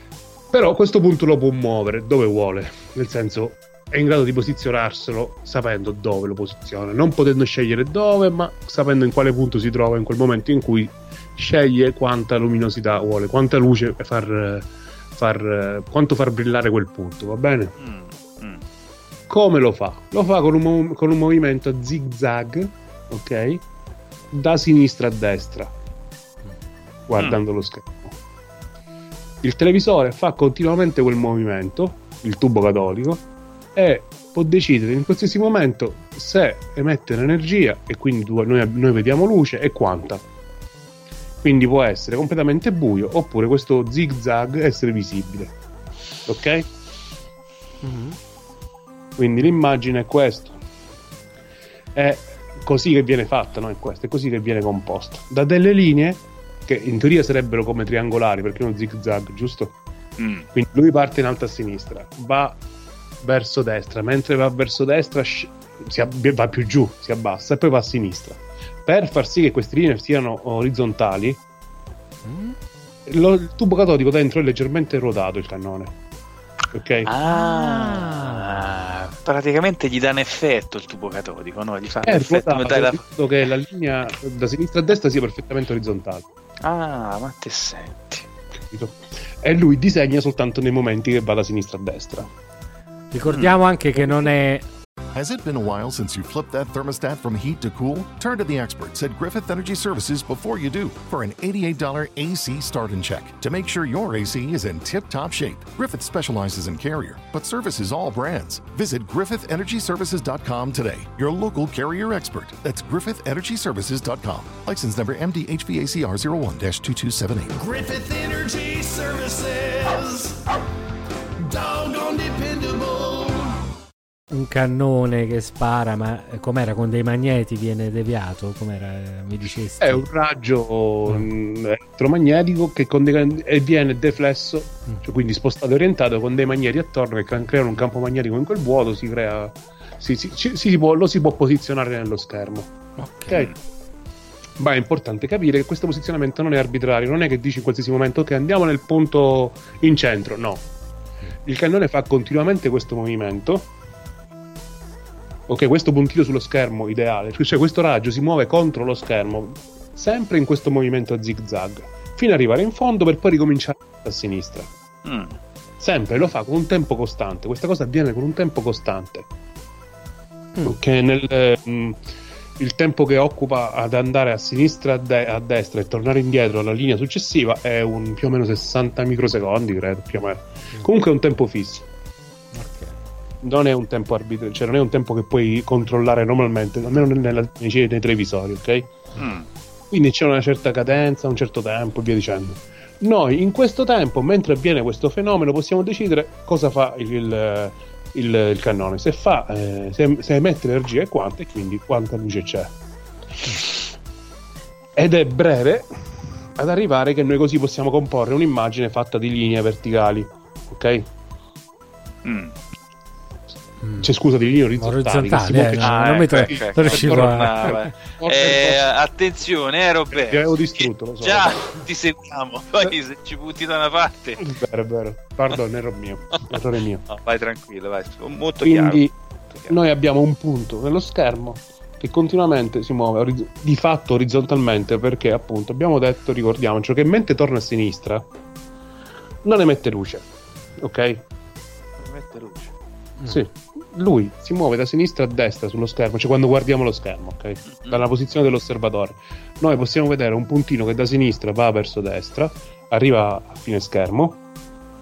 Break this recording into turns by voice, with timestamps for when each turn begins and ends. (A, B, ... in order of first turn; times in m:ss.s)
0:00.5-0:17.7 A
0:17.8-0:18.6 B
0:19.3-0:23.6 A
0:24.3-0:25.7 A
0:27.1-0:28.2 A
0:29.4-0:33.2 A
0:33.7-0:40.2 A
0:41.4-0:45.5 A
0:46.3-0:46.6 A
0:47.8-0:48.2 C
0:49.2-0:50.6 A
0:51.9-0:59.7 A
1:00.2-1:00.5 B
1:00.5-1:02.6 A
1:03.2-1:11.4 A
1:12.2-1:12.6 C
1:13.1-1:15.9 A
1:16.7-1:17.1 A
1:17.0-1:23.0 B
1:17.3-1:18.7 C
1:22.0-1:26.2 A
1:26.6-1:28.3 B
1:28.7-1:32.3 A
1:33.1-1:34.6 C
1:33.3-1:33.5 B
1:35.1-1:57.7 D
1:57.5-2:00.5 E
2:01.4-2:03.6 E
2:04.3-2:10.0 C
2:09.8-2:22.7 A
2:23.0-2:23.4 C
2:24.6-2:30.6 A
2:31.4-2:33.7 A
2:35.5-2:44.7 A
2:45.0-2:45.4 B
2:45.8-2:49.2 A
2:50.6-2:52.0 A
2:52.6-3:01.8 A
3:02.5-3:02.9 C
3:03.4-3:08.9 A
3:09.2-3:09.5 B
3:09.9-3:22.7 A
3:25.0-3:25.8 A
3:26.6-3:31.0 A
3:32.2-3:32.5 B
3:33.8-3:34.1 C
3:34.0-3:38.9 A
3:34.8-3:37.8 C
3:35.8-3:44.4 B
3:40.2-3:41.8 A
3:44.4-3:47.0 A
3:47.1-3:49.8 B
3:48.6-3:49.1 A
3:49.7-3:58.2 A
3:59.4-4:00.2 A
4:00.8-4:01.2 A
4:02.0-4:02.7 B
4:03.3-4:14.4 A
4:07.7-4:08.0 B